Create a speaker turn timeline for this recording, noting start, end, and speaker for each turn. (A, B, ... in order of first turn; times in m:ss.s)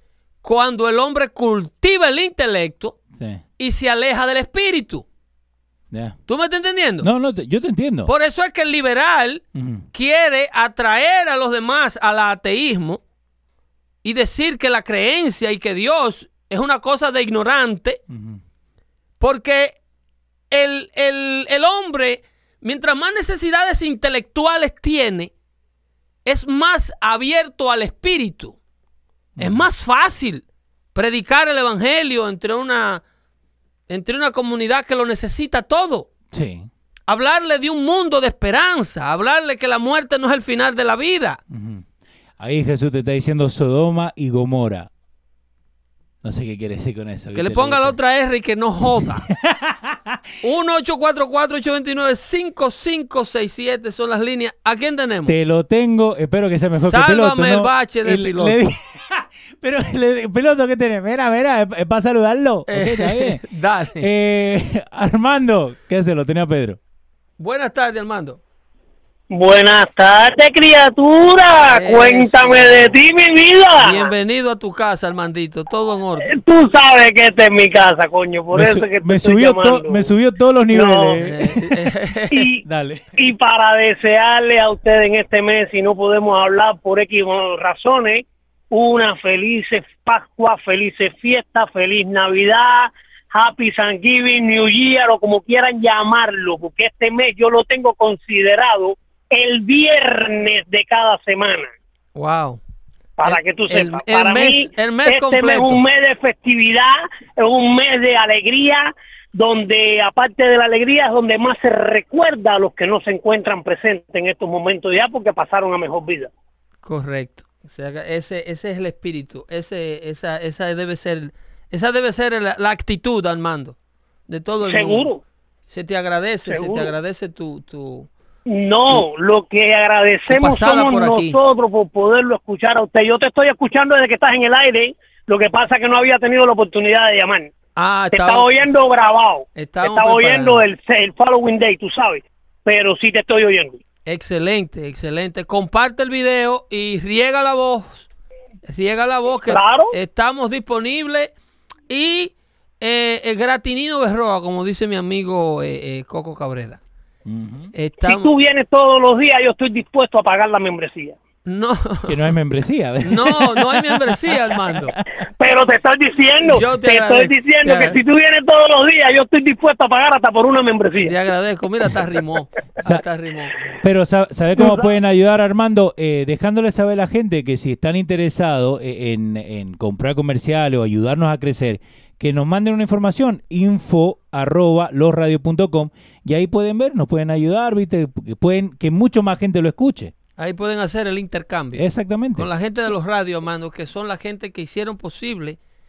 0:00.4-0:03.0 A
0:03.1-0:03.4 B
0:03.6-0:05.0 A
0:05.9-0:06.2 B
0:06.3-0:07.1 A
0:07.0-0:08.1 B
0:08.1-0:13.0 A
0:09.5-0:09.9 B
0:14.0-0:18.0 A
0:18.1-0:18.4 B
0:19.2-0:19.8 A
0:20.5-0:25.3 A
0:26.2-0:28.6 A
0:29.4-0:29.6 B
0:29.4-0:30.4 A
0:30.9-0:33.0 A
0:33.9-0:36.1 A
0:36.3-0:36.7 B
0:37.1-0:41.4 A
0:41.5-0:41.8 B
0:42.4-0:44.9 B
0:46.2-0:48.0 B
0:47.3-0:49.3 A
0:49.3-0:50.2 B
0:50.4-0:55.3 A
0:55.3-1:03.4 B
0:56.8-0:58.6 A
1:02.7-1:04.1 A
1:04.0-1:06.8 B
1:07.4-1:08.4 A
1:09.3-1:14.1 C
1:11.7-1:12.9 A
1:13.8-1:16.3 A
1:16.2-1:20.1 C
1:18.5-1:21.8 B
1:20.7-1:21.2 C
1:21.2-1:22.5 A
1:22.3-1:22.6 C
1:22.6-1:23.0 B
1:23.2-1:41.7 C
1:42.2-1:42.6 A
1:43.2-1:56.3 C
1:43.3-1:45.8 A
1:56.8-2:03.8 A
2:04.3-2:05.1 A
2:04.6-2:05.2 C
2:05.7-2:08.1 A
2:06.5-2:06.9 C
2:08.5-2:17.5 C
2:10.3-2:11.4 A
2:17.8-2:18.6 A
2:18.1-2:23.8 C
2:19.5-2:20.6 A
2:24.1-2:28.1 A
2:28.6-2:31.3 A
2:29.5-2:29.9 C
2:31.9-2:36.8 A
2:37.2-2:37.7 B
2:37.8-2:38.3 A
2:38.0-2:41.2 C
2:41.4-2:42.3 A
2:42.1-2:45.0 B
2:43.0-2:44.9 A
2:45.4-2:51.1 C
2:46.4-2:48.0 A
2:51.0-2:53.6 A
2:53.8-3:10.1 B
3:10.4-3:15.6 A
3:11.8-3:12.5 B